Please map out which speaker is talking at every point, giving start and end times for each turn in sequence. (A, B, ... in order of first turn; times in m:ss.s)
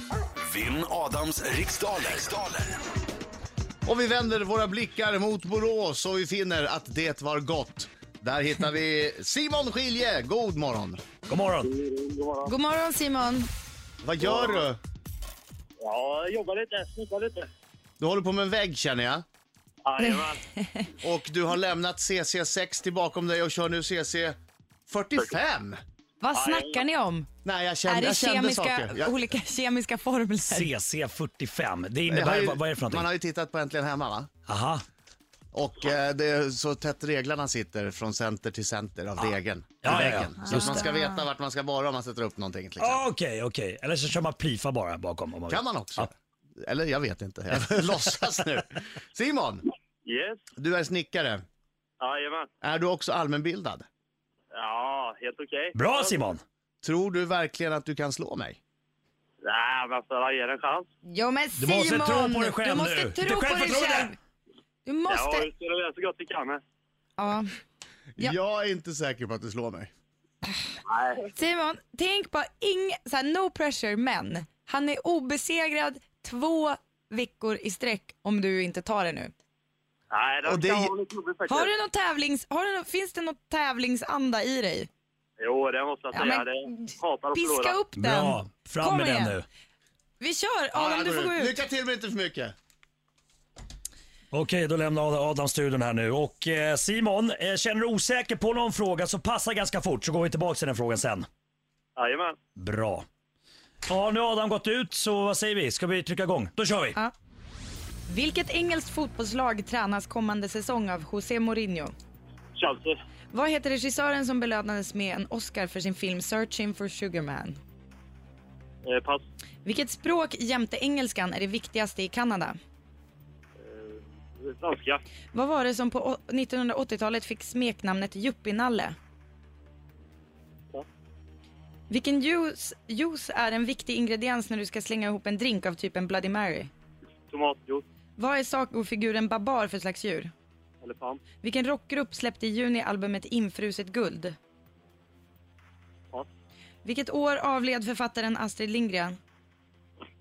0:00.4-0:02.8 A
0:03.8-0:11.0 B
0:11.3-0:11.7 C
0:11.6-0:12.5 D
0:12.4-0:13.5 E
0:14.0-0:14.8 B
0:14.2-0:14.6 D
0:15.8-0:17.5 D
0:18.0-0:19.2 B
0:19.8-0:20.4 D
0:20.0-0:20.9 E
0:21.0-0:24.4 B
0:24.9-0:25.8 B
0:26.2-0:27.3 E
0:26.3-0:26.8 D
0:27.4-0:29.2 B
0:27.8-0:30.7 E
0:30.5-0:33.1 C
0:32.1-0:34.3 B
0:34.5-0:34.8 C
0:35.5-0:43.0 B
0:39.8-0:40.5 C
0:40.4-0:41.2 E
0:42.8-0:46.1 C
0:45.5-0:49.6 B
0:50.0-0:50.4 D
0:50.6-0:51.4 B
0:52.0-0:52.5 D
0:52.6-0:53.8 B
0:54.5-0:56.2 D
0:55.7-0:56.4 C
0:56.8-0:58.6 B
0:59.4-1:00.9 D
1:01.0-1:04.2 E
1:01.6-1:04.1 C
1:04.8-1:05.5 E
1:05.1-1:06.6 D
1:07.2-1:07.5 E
1:08.2-1:09.9 B
1:10.9-1:11.3 D
1:11.3-1:19.3 E
1:20.1-1:21.7 D
1:20.4-1:20.9 B
1:21.5-1:24.9 E
1:25.4-1:27.8 D
1:26.1-1:29.4 E
1:27.9-1:29.4 C
1:30.2-1:31.6 E
1:30.7-1:32.5 B
1:34.3-1:41.3 C
1:42.0-1:42.4 D
1:42.6-1:43.0 C
1:43.9-1:47.0 C
1:48.1-1:51.9 E
1:52.6-1:53.0 D
1:53.3-1:57.6 E
1:58.8-1:59.2 D
1:59.6-2:02.6 E
2:03.6-2:05.0 D
2:05.3-2:09.0 E
2:11.9-2:16.7 E
2:17.3-2:17.8 D
2:18.2-2:20.3 E
2:20.8-2:21.2 D
2:21.4-2:24.4 E
2:26.8-2:29.2 E